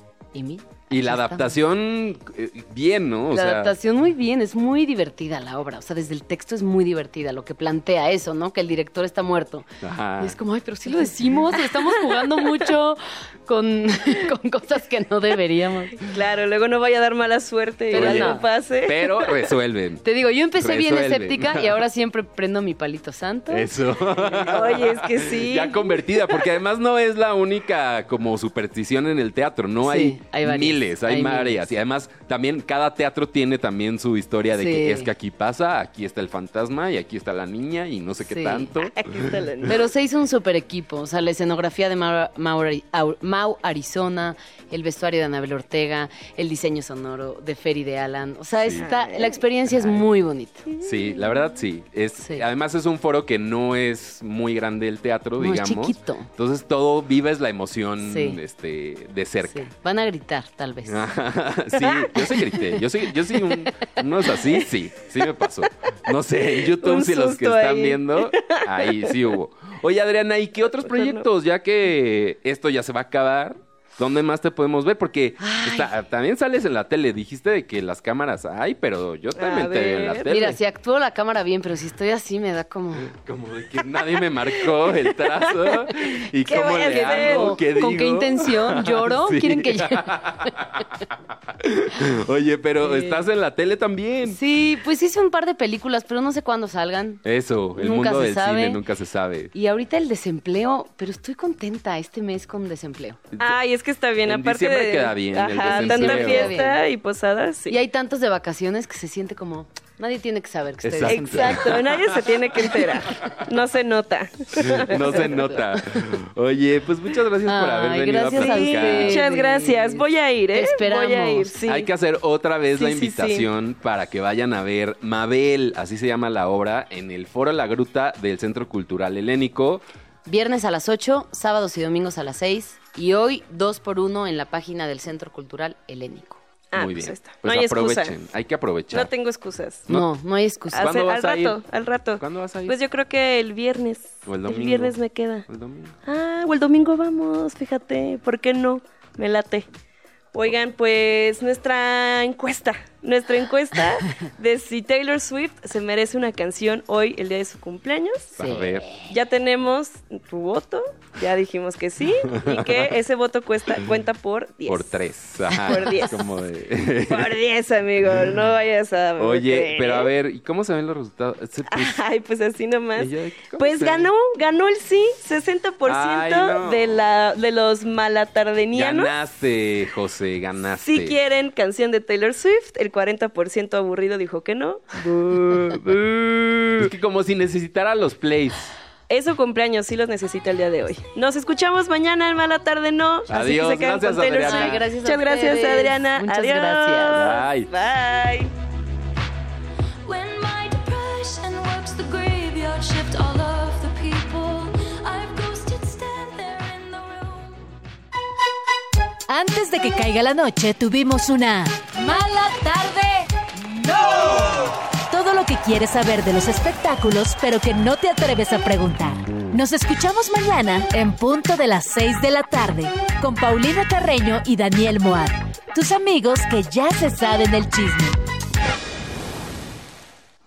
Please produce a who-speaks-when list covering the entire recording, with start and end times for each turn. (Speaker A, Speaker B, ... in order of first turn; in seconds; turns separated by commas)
Speaker A: 0.3-1.5, Speaker B: 0.9-3.8, Speaker A: 3.3-9.7, Speaker B: 9.8-10.4, Speaker A: 10.2-16.0, Speaker C: 16.0-19.3, Speaker A: 17.9-18.4, Speaker B: 17.9-21.7, Speaker A: 20.0-23.7, Speaker B: 23.5-39.7, Speaker C: 24.1-26.4, Speaker A: 29.8-31.7, Speaker A: 34.5-35.1, Speaker A: 38.3-38.7, Speaker C: 38.8-39.8, Speaker A: 39.7-50.7, Speaker B: 48.6-48.9, Speaker C: 48.8-49.4, Speaker B: 49.7-50.0, Speaker C: 50.7-51.4, Speaker B: 50.8-59.7, Speaker A: 52.2-52.5, Speaker A: 55.4-56.3, Speaker A: 58.0-58.4, Speaker A: 59.5-61.1, Speaker B: 60.9-80.6, Speaker C: 61.9-62.3, Speaker C: 66.5-69.1, Speaker C: 70.7-71.3, Speaker A: 75.4-75.9, Speaker C: 79.4-80.3, Speaker A: 80.3-83.1, Speaker B: 83.1-90.9, Speaker C: 85.4-85.9, Speaker C: 86.5-87.6, Speaker A: 86.7-90.2, Speaker B: 91.6-94.4, Speaker A: 92.8-93.3, Speaker A: 94.2-97.2, Speaker B: 97.2-99.5, Speaker A: 97.8-98.8, Speaker A: 99.5-103.2, Speaker C: 103.4-107.8, Speaker B: 104.3-106.6, Speaker A: 105.6-106.8, Speaker A: 107.7-111.6, Speaker B: 110.8-112.2, Speaker C: 111.1-115.3, Speaker B: 114.6-119.2, Speaker A: 115.1-115.6, Speaker A: 117.5-121.5, Speaker C: 118.4-121.9, Speaker B: 121.7-129.8, Speaker C: 122.8-123.5, Speaker A: 130.3-136.4, Speaker C: 136.7-138.1, Speaker B: 136.8-139.1, Speaker C: 138.9-139.9, Speaker A: 139.9-140.8, Speaker C: 140.7-145.5, Speaker B: 140.7-141.6, Speaker B: 142.2-142.8, Speaker B: 144.3-146.0, Speaker C: 146.1-149.7, Speaker C: 150.3-158.3, Speaker B: 158.4-158.9, Speaker A: 158.4-159.0, Speaker C: 159.1-164.9, Speaker B: 162.3-162.9, Speaker B: 164.7-167.4, Speaker C: 165.6-166.2, Speaker C: 167.1-170.1, Speaker B: 169.2-172.0, Speaker C: 171.7-179.1, Speaker B: 173.0-174.1, Speaker B: 175.9-177.0, Speaker B: 178.8-181.2, Speaker C: 180.8-185.6, Speaker B: 185.3-188.7, Speaker C: 189.1-198.5, Speaker B: 193.3-194.9, Speaker A: 194.4-197.2, Speaker B: 197.1-197.7, Speaker D: 200.0-207.7, Speaker E: 209.3-228.2